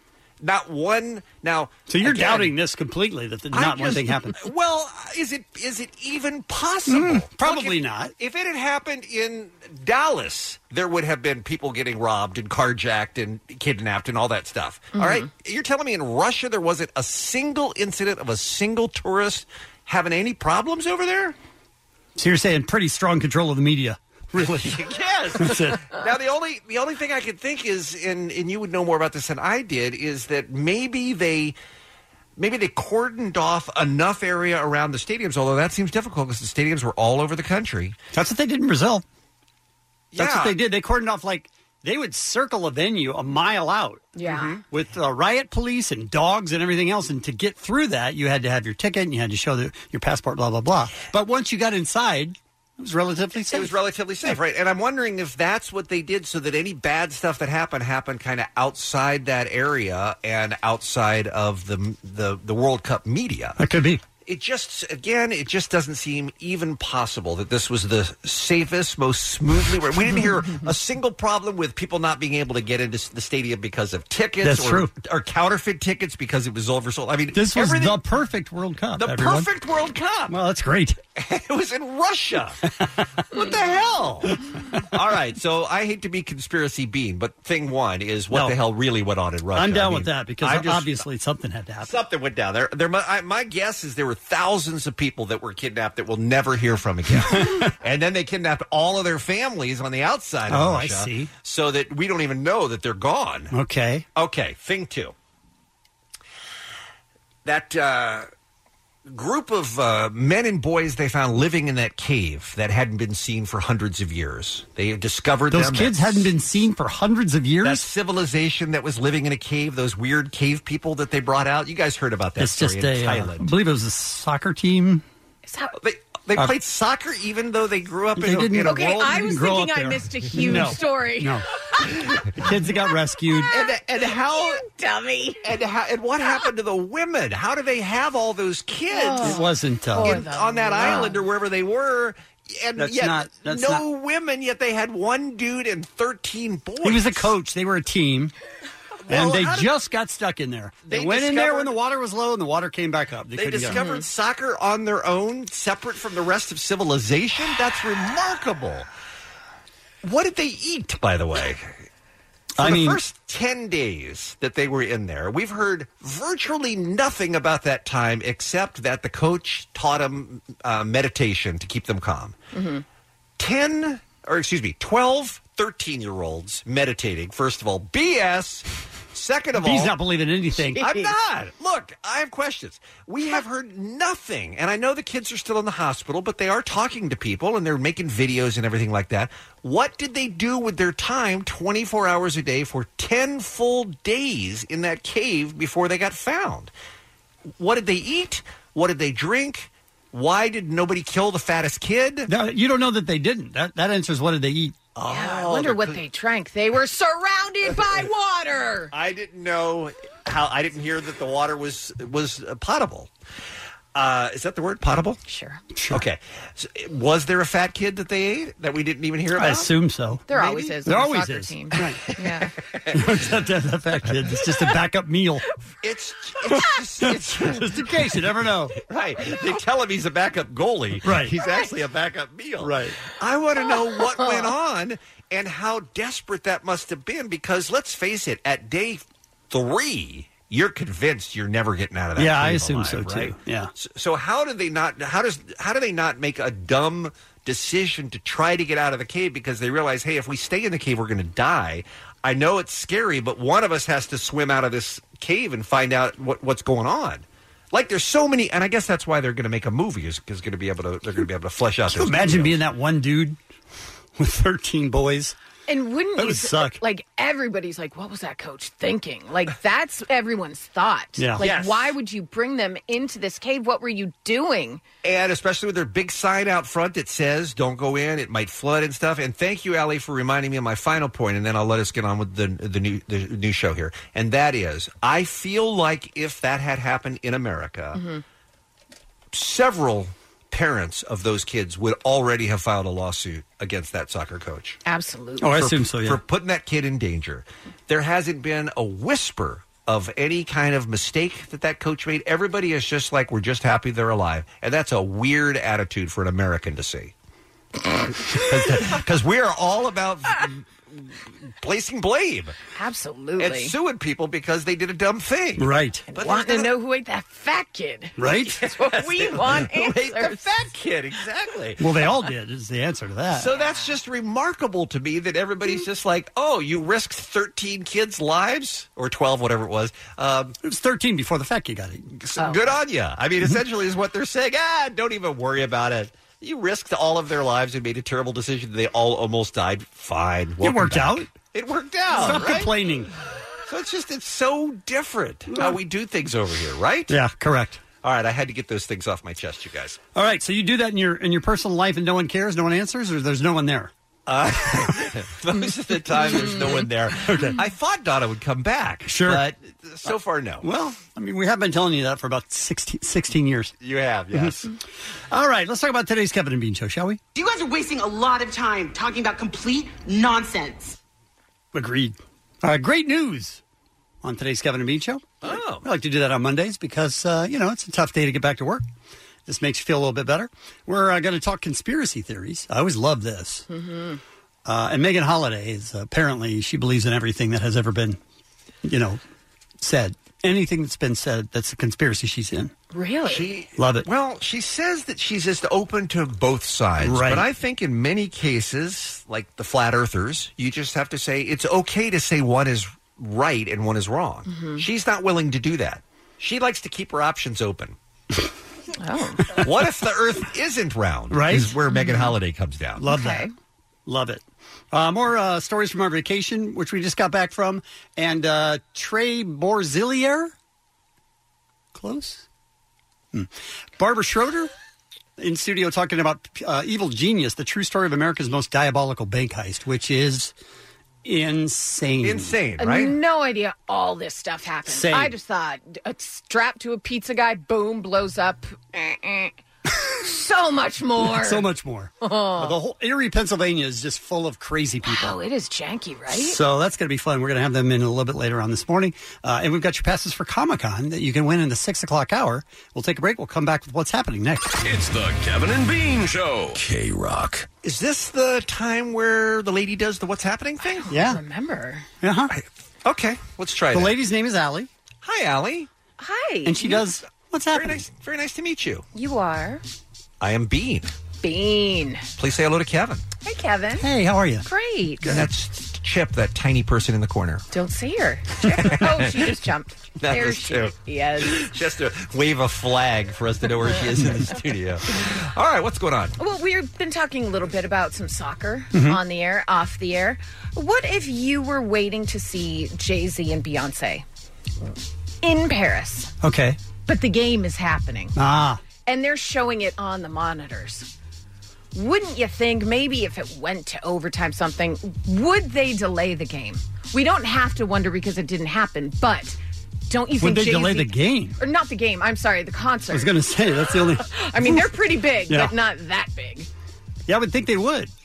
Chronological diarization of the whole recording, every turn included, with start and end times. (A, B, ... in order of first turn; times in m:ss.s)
0:00.4-0:02.5 A
0:01.9-0:04.4 B
0:03.5-0:21.4 A
0:06.9-0:08.1 B
0:14.9-0:15.2 C
0:22.2-0:24.8 B
0:24.5-0:31.6 A
0:25.4-0:25.8 B
0:32.4-0:38.0 A
0:38.1-0:39.0 B
0:40.1-0:40.6 A
0:40.1-0:53.7 B
0:44.2-0:44.6 C
0:53.5-1:03.6 A
1:03.6-1:04.0 B
1:04.2-1:18.0 A
1:14.4-1:14.9 B
1:17.3-1:19.5 B
1:19.0-1:20.4 A
1:20.3-1:21.0 B
1:21.2-1:22.7 A
1:22.8-1:23.4 B
1:23.3-1:24.4 A
1:24.9-1:31.0 A
1:28.3-1:28.6 B
1:29.6-1:31.9 B
1:31.8-1:43.5 A
1:37.2-1:37.7 B
1:40.5-1:41.3 B
1:43.5-1:44.1 B
1:44.2-1:45.1 A
1:47.4-1:48.3 A
1:49.1-1:56.3 A
1:55.5-1:57.9 B
1:57.6-2:03.5 A
2:02.4-2:05.0 B
2:05.4-2:05.8 C
2:05.8-2:09.4 A
2:08.2-2:11.4 B
2:08.6-2:12.1 C
2:12.3-2:13.5 B
2:13.5-2:14.6 A
2:14.3-2:15.4 C
2:15.4-2:19.4 A
2:18.9-2:21.2 C
2:19.2-2:20.2 B
2:20.0-2:27.3 A
2:22.8-2:23.8 B
2:26.8-2:28.3 B
2:29.1-2:29.7 A
2:29.1-2:33.8 B
2:30.9-2:31.7 A
2:33.3-2:38.9 A
2:33.7-2:34.0 C
2:40.0-2:41.7 A
2:42.6-2:43.0 B
2:42.6-2:52.4 A
2:52.5-2:52.8 C
2:53.4-3:00.0 A
2:59.6-3:00.9 B
3:00.8-3:01.1 C
3:00.8-3:16.7 A
3:17.6-3:22.3 A
3:22.2-3:24.8 B
3:25.0-3:26.0 A
3:25.1-3:28.9 C
3:28.9-3:33.1 A
3:33.9-3:35.2 A
3:35.3-3:35.6 C
3:35.8-3:36.0 B
3:35.9-3:39.7 A
3:39.4-3:42.0 B
3:40.3-3:42.5 C
3:42.8-3:43.0 A
3:42.9-3:45.4 B
3:45.8-3:47.7 A
3:47.0-3:48.8 B
3:48.9-4:22.6 A
3:51.0-3:51.4 B
3:52.6-3:53.0 B
3:54.2-3:54.4 C
4:02.2-4:03.7 B
4:21.9-4:23.4 B
4:24.2-4:25.4 B
4:25.7-4:34.8 C
4:26.2-4:26.8 B
4:31.2-4:31.5 B
4:31.4-4:31.9 A
4:35.0-4:48.0 A
4:48.0-4:48.2 C
4:49.3-4:54.8 A
4:54.9-4:55.6 C
4:55.4-4:56.2 B
4:55.5-5:07.1 A
5:08.3-5:12.5 A
5:12.8-5:13.7 C
5:13.4-5:16.7 A
5:15.6-5:16.0 B
5:16.1-5:20.5 C
5:18.2-5:18.6 B
5:18.5-5:21.8 A
5:21.8-5:23.5 B
5:23.4-5:30.6 A
5:23.5-5:23.9 C
5:30.6-5:32.1 B
5:32.2-5:42.7 A
5:32.4-5:32.7 C
5:40.6-5:41.3 B
5:42.1-5:43.1 B
5:43.7-5:47.2 A
5:45.5-5:45.8 B
5:47.1-5:47.8 B
5:48.0-5:50.0 A
5:50.1-5:53.9 B
5:54.3-6:00.6 A
5:57.3-5:57.6 B
5:59.0-5:59.4 B
6:00.6-6:03.7 B
6:03.8-6:04.7 A
6:05.3-6:07.2 B
6:07.3-6:11.0 D
6:11.7-6:13.6 B
6:14.2-6:18.8 B
6:15.4-6:15.9 A
6:19.5-6:23.6 B
6:23.7-6:24.2 C
6:24.6-6:28.2 B
6:28.8-6:29.2 B
6:29.8-6:32.7 B
6:32.9-6:33.5 C
6:33.2-6:48.0 A
6:33.8-6:34.1 B
6:37.0-6:37.5 B
6:44.5-6:44.8 C
6:49.0-6:49.6 C
6:49.5-6:53.0 A
6:51.3-6:51.8 B
6:51.9-6:52.3 C
6:53.0-6:53.5 B
6:53.1-6:53.5 C
6:54.0-7:00.5 B
7:01.9-7:02.4 B
7:03.3-7:04.7 B
7:05.4-7:10.5 B
7:11.2-7:12.5 B
7:12.2-7:13.2 A
7:12.8-7:21.6 C
7:14.9-7:15.4 B
7:21.2-7:25.4 B
7:22.2-7:22.7 C
7:25.0-7:26.6 C
7:26.3-7:34.8 B
7:34.8-7:37.7 E
7:37.8-7:41.1 A
7:40.8-7:42.1 C
7:41.1-7:41.4 B
7:42.2-7:42.5 B
7:42.5-7:44.2 A
7:43.9-7:44.9 B
7:45.2-7:45.9 A
7:46.2-7:47.0 C
7:46.6-7:48.0 B
7:47.7-7:49.0 A
7:49.1-7:49.8 C
7:50.4-7:51.1 A
7:51.4-7:52.2 C
7:52.4-7:53.2 A
7:53.4-7:54.1 C
7:54.0-7:54.7 B
7:54.6-7:55.4 C
7:55.2-7:57.6 A
7:57.7-8:01.7 C
7:58.7-7:59.5 A
8:00.2-8:06.4 A
8:04.1-8:04.5 B
8:06.4-8:14.2 C
8:08.9-8:09.2 B
8:15.4-8:16.3 C
8:16.4-8:16.8 B
8:17.0-8:18.4 C
8:18.4-8:18.8 B
8:19.0-8:21.1 C
8:21.9-8:29.6 C
8:30.1-8:33.3 C
8:30.4-8:31.6 B
8:33.1-8:34.9 B
8:34.2-8:36.7 C
8:35.5-8:35.7 B
8:37.3-8:38.1 B